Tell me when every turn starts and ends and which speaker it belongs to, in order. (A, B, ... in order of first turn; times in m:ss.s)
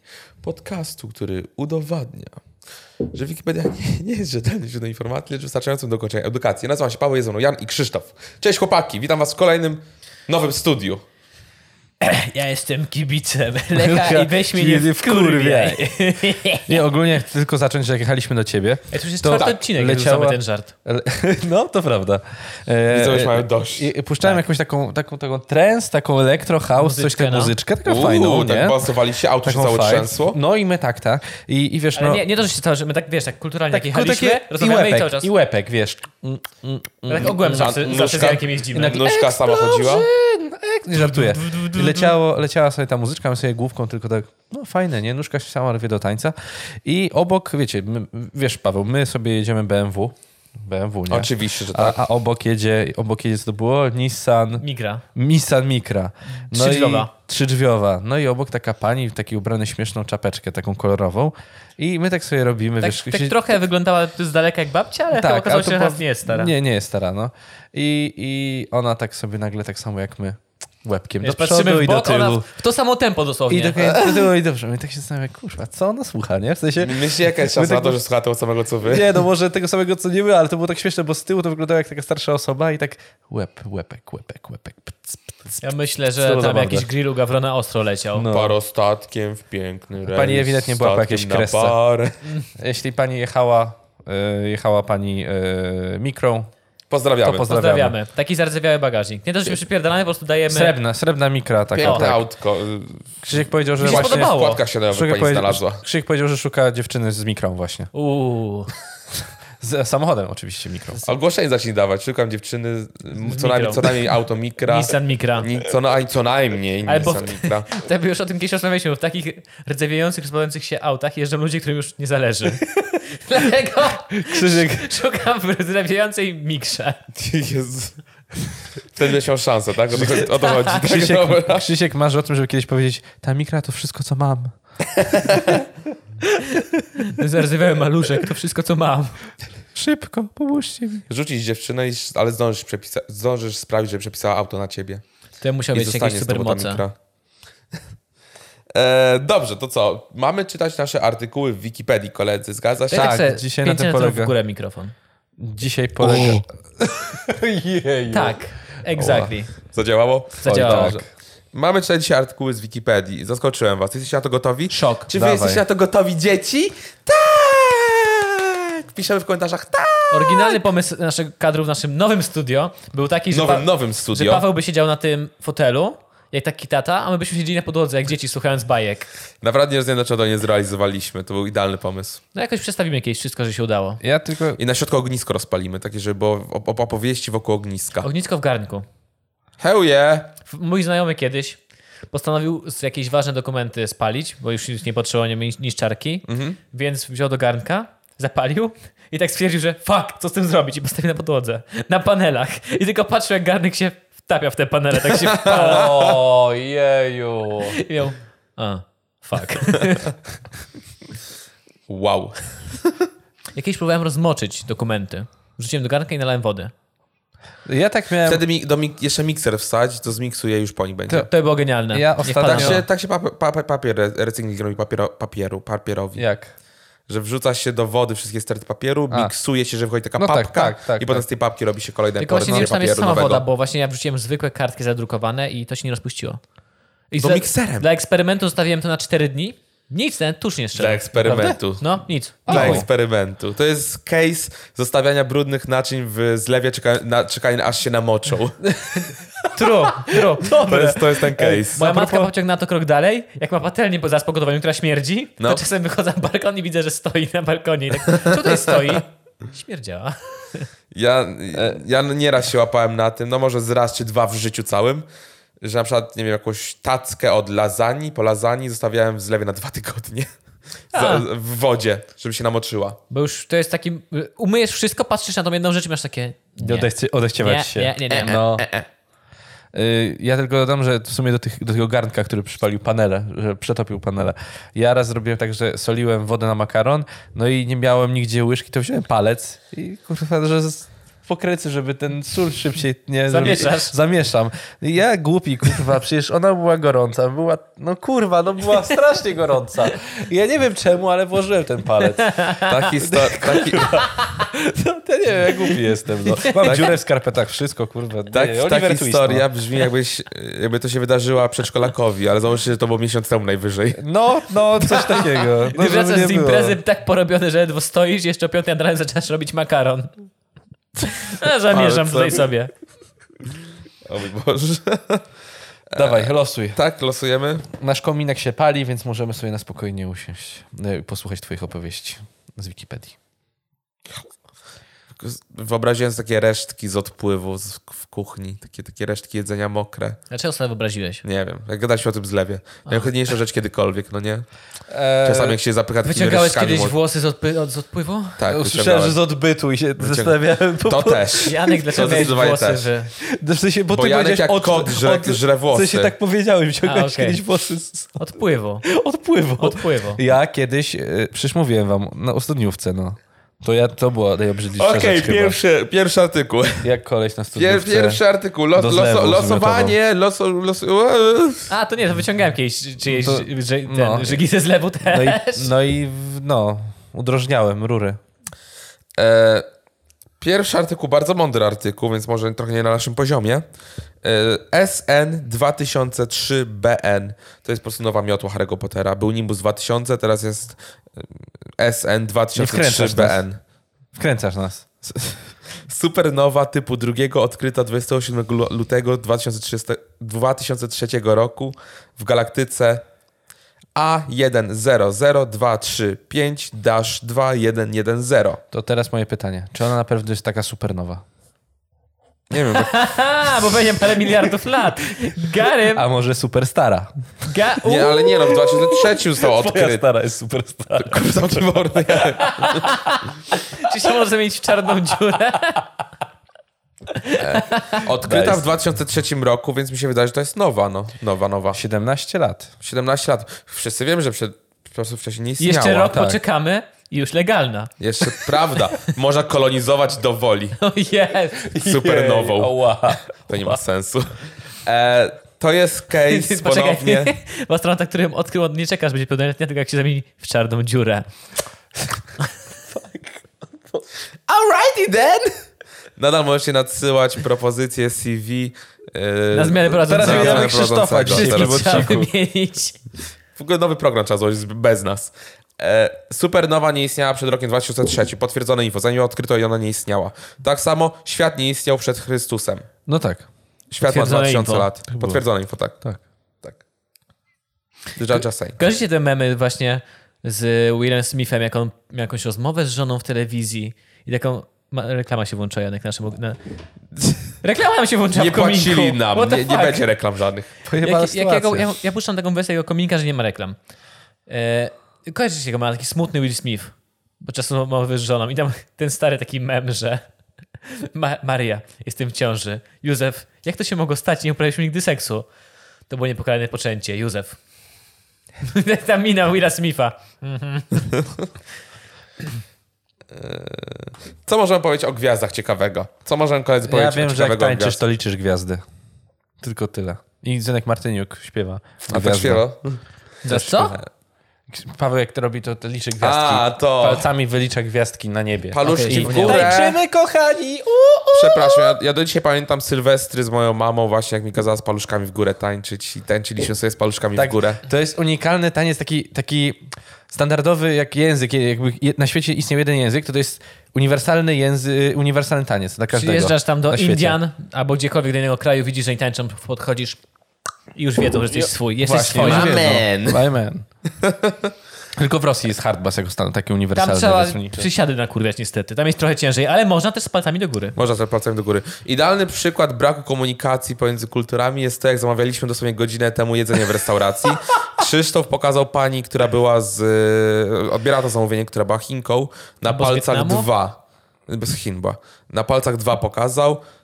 0:00.4-0:02.4 A
0:03.1-0:11.0 A
0:12.0-0:16.8 B
0:13.8-0:32.2 C
0:18.9-0:20.7 B
0:22.9-0:23.9 A
0:26.8-0:27.6 B
0:27.8-0:30.4 A
0:32.0-0:35.3 B
0:33.7-0:37.8 C
0:37.1-0:39.1 B
0:37.5-0:40.1 A
0:38.7-1:03.4 C
0:41.0-0:42.2 B
0:51.1-0:52.0 A
0:54.6-0:55.0 B
0:56.5-0:57.1 B
1:02.8-1:06.5 B
1:05.1-1:12.5 C
1:11.2-1:14.0 B
1:13.5-1:18.0 C
1:16.8-1:19.1 A
1:18.8-1:25.2 C
1:25.6-1:28.3 B
1:26.2-1:26.9 C
1:28.1-1:28.6 C
1:28.3-1:32.2 A
1:30.1-1:31.8 C
1:32.6-1:36.5 C
1:36.9-1:37.5 A
1:37.2-1:38.0 C
1:37.3-1:40.8 B
1:40.5-1:42.2 C
1:41.7-1:45.8 A
1:41.8-1:42.1 B
1:43.2-1:44.3 C
1:43.8-1:44.6 B
1:44.9-1:47.9 C
1:47.9-1:48.7 B
1:49.6-1:51.0 C
1:51.0-1:57.7 A
1:53.2-1:54.0 B
1:54.7-1:55.5 B
1:56.9-2:07.0 B
2:04.2-2:04.9 C
2:07.2-2:08.0 A
2:08.9-2:11.7 A
2:09.9-2:14.5 C
2:15.0-2:15.6 A
2:16.3-2:19.2 B
2:19.8-2:21.1 C
2:21.1-2:25.0 A
2:25.4-2:26.8 B
2:25.7-2:27.0 A
2:28.8-2:33.1 A
2:32.9-2:34.3 C
2:32.9-2:34.9 B
2:35.4-2:38.4 C
2:36.0-2:36.4 A
2:38.1-2:39.5 B
2:38.9-2:39.4 C
2:39.7-2:50.6 A
2:40.4-2:41.0 B
2:40.4-2:41.1 C
2:44.7-2:45.1 B
2:45.1-2:45.6 C
2:50.1-2:59.1 B
2:53.3-2:54.4 A
2:59.4-3:02.2 A
3:02.4-3:04.0 B
3:04.0-3:04.6 C
3:04.6-3:08.1 A
3:08.0-3:08.9 B
3:09.6-3:10.4 A
3:10.5-3:11.6 B
3:12.1-3:25.9 B
3:16.3-3:16.6 A
3:25.0-3:27.8 C
3:25.4-3:26.1 A
3:27.7-3:30.2 B
3:31.9-3:33.0 A
3:33.6-3:36.7 B
3:37.7-3:38.4 C
3:38.3-3:41.3 A
3:41.2-3:42.8 B
3:41.9-3:42.8 C
3:42.5-3:46.2 A
3:46.2-3:46.5 C
3:47.1-3:53.4 A
3:50.2-3:51.2 C
3:52.2-3:56.4 B
3:52.4-3:52.7 C
3:57.1-4:02.8 B
3:57.2-3:57.9 A
4:00.8-4:01.9 A
4:01.3-4:01.5 C
4:02.5-4:08.6 A
4:02.5-4:02.9 C
4:09.5-4:20.7 B
4:10.7-4:11.8 A
4:10.7-4:12.3 C
4:18.2-4:18.7 A
4:20.9-4:25.1 A
4:25.6-4:30.3 A
4:30.9-4:33.0 A
4:30.9-4:31.3 B
4:33.1-4:38.5 B
4:36.6-4:38.7 C
4:38.1-4:38.9 A
4:39.7-5:02.4 C
4:53.3-4:53.9 B
5:02.3-5:02.7 B
5:02.7-5:04.0 A
5:03.0-5:09.5 C
5:06.3-5:06.7 B
5:06.6-5:06.9 A
5:08.3-5:15.2 A
5:14.0-5:16.8 C
5:14.9-5:20.2 B
5:21.0-5:22.7 B
5:21.7-5:22.4 A
5:24.1-5:25.2 A
5:25.9-5:27.7 A
5:26.0-5:26.8 C
5:27.7-5:33.2 C
5:35.2-5:40.2 A
5:40.3-5:41.2 B
5:41.2-5:44.5 A
5:44.9-5:45.6 C
5:45.2-5:47.0 A
5:46.0-5:48.4 B
5:48.4-5:49.2 A
5:48.5-5:51.9 C
5:50.0-5:52.8 A
5:51.5-5:53.1 B
5:53.2-5:58.2 C
5:53.9-5:56.1 A
5:56.8-5:57.4 B
5:58.2-5:58.9 B
5:58.8-6:05.6 C
5:59.6-6:00.2 B
6:04.8-6:06.9 A
6:06.8-6:08.2 C
6:07.6-6:11.7 A
6:08.8-6:10.0 C
6:11.7-6:15.7 B
6:13.1-6:14.4 C
6:15.1-6:18.2 C
6:19.2-6:19.7 A
6:20.4-6:23.7 A
6:24.2-6:30.8 A
6:31.8-6:33.6 A
6:32.6-6:33.4 C
6:34.2-6:34.9 C
6:35.9-6:43.0 A
6:44.0-6:48.6 A
6:48.7-6:51.2 C
6:52.5-6:52.9 A
6:52.7-6:56.0 B
6:54.2-6:54.6 C
6:55.2-6:57.5 C
6:57.5-6:58.5 B
6:57.8-7:00.1 A
6:58.6-7:01.6 C
7:01.0-7:02.9 A
7:02.7-7:03.1 B
7:03.7-7:05.8 B
7:07.2-7:08.0 B
7:07.4-7:11.8 A
7:08.2-7:08.6 C
7:11.7-7:12.7 C
7:12.8-7:16.1 A
7:15.6-7:18.4 B
7:16.0-7:16.4 C
7:18.0-7:20.8 A
7:20.8-7:21.7 B
7:21.7-7:23.8 C
7:21.7-7:27.3 A
7:26.3-7:31.3 B
7:34.5-7:35.5 A
7:36.2-7:42.1 A
7:39.5-7:43.0 B
7:40.1-7:42.3 C
7:43.6-7:52.9 A
7:53.1-7:53.5 C
7:53.9-7:56.0 A
7:54.0-7:54.9 B
7:55.1-7:55.4 C
7:58.2-7:58.8 A
7:58.8-8:06.6 B
8:07.6-8:10.1 B
8:08.3-8:10.7 A
8:10.8-8:11.9 C
8:11.0-8:13.8 B
8:14.5-8:20.2 B
8:20.9-8:25.5 B
8:26.1-8:27.6 B
8:28.6-8:31.2 B
8:33.3-8:38.0 A
8:36.8-8:38.8 C
8:39.6-8:42.6 C
8:42.1-8:43.0 A
8:43.4-8:44.0 B
8:43.5-8:44.0 C
8:44.7-8:52.0 C
8:46.2-8:47.3 A
8:48.7-8:50.0 A
8:48.8-8:50.0 B
8:51.4-8:57.8 A
8:57.4-9:07.4 C
9:06.1-9:10.2 B
9:11.0-9:13.0 B
9:11.5-9:13.8 C
9:12.1-9:13.4 A
9:14.2-9:14.7 A
9:15.2-9:17.9 C
9:17.0-9:21.0 B
9:21.0-9:36.8 A
9:32.9-9:33.7 B